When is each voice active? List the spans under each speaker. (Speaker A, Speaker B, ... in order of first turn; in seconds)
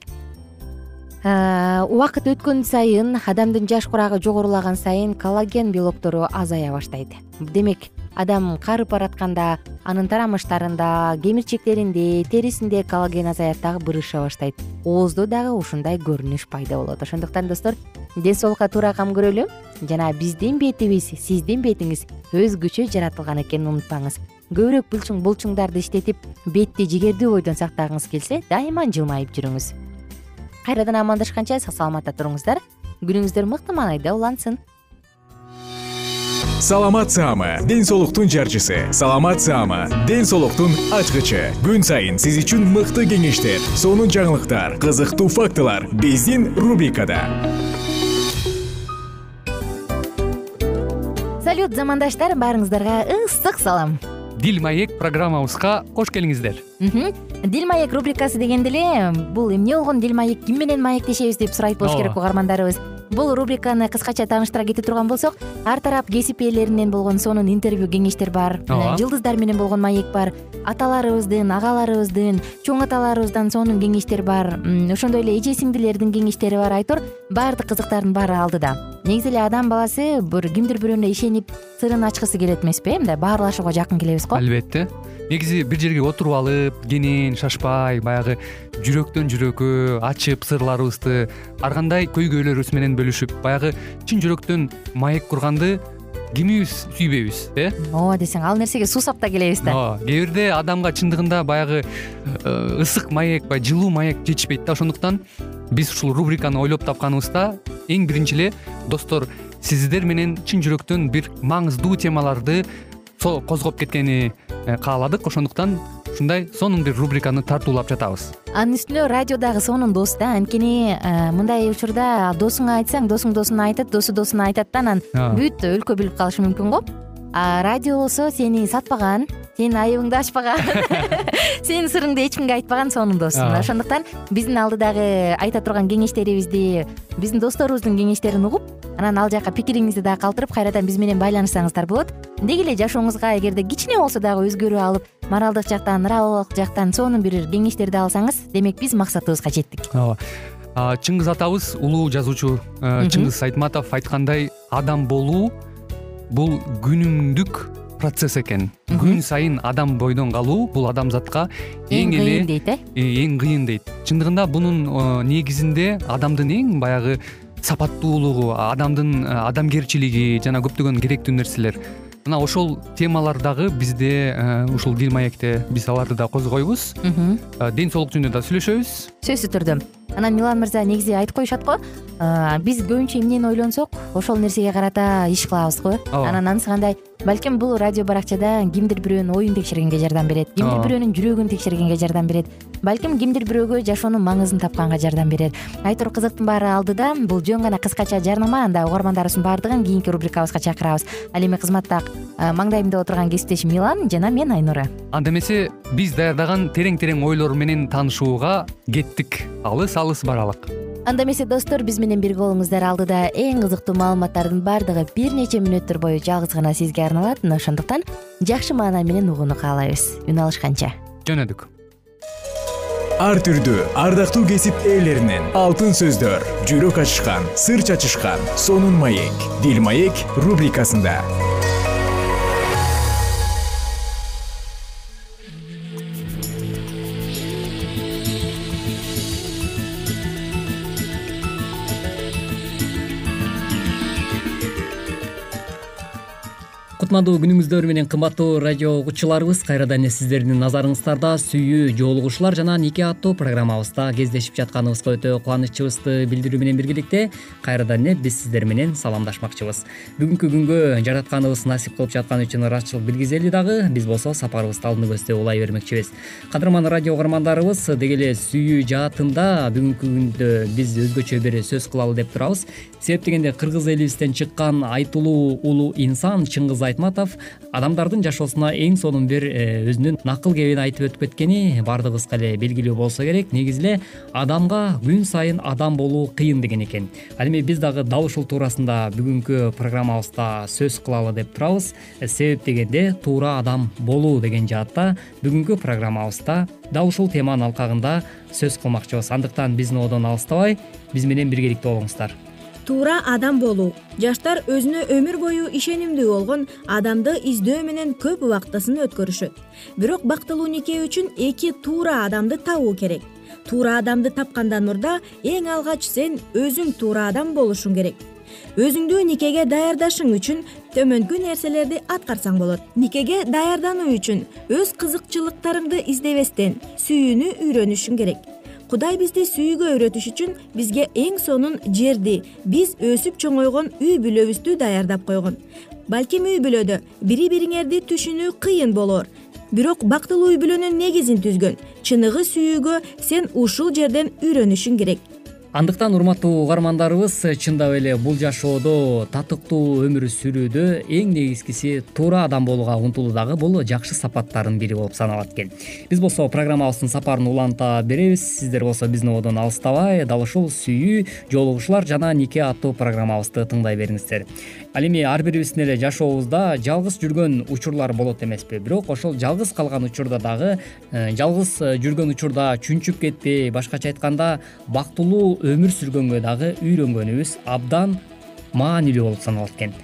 Speaker A: 1.2-29.8, 30.7-34.6, 51.4-54.0, 56.8-84.4, 97.8-99.8, 118.5-149.9, 153.0-153.3, 158.9-159.2, 161.9-162.8, 177.0-177.4, 179.2-204.9, 211.1-220.9
Speaker B: 36.6-47.4, 223.2-231.2
Speaker C: 54.4-56.6, 61.8-62.2, 68.7-69.0, 84.3-95.8, 96.3-97.8, 99.6-105.2, 105.7-112.6, 113.2-118.3, 125.2-125.4, 133.3-133.7, 149.9-150.2, 150.8-155.5, 156.3-177.0, 177.6-179.1, 186.1-186.4, 190.6-190.9, 205.1-210.7, 221.2-221.7
Speaker D: 247.0-302.4, 345.7-378.2, 378.8-379.9
Speaker E: 302.9-318.2, 318.8-345.2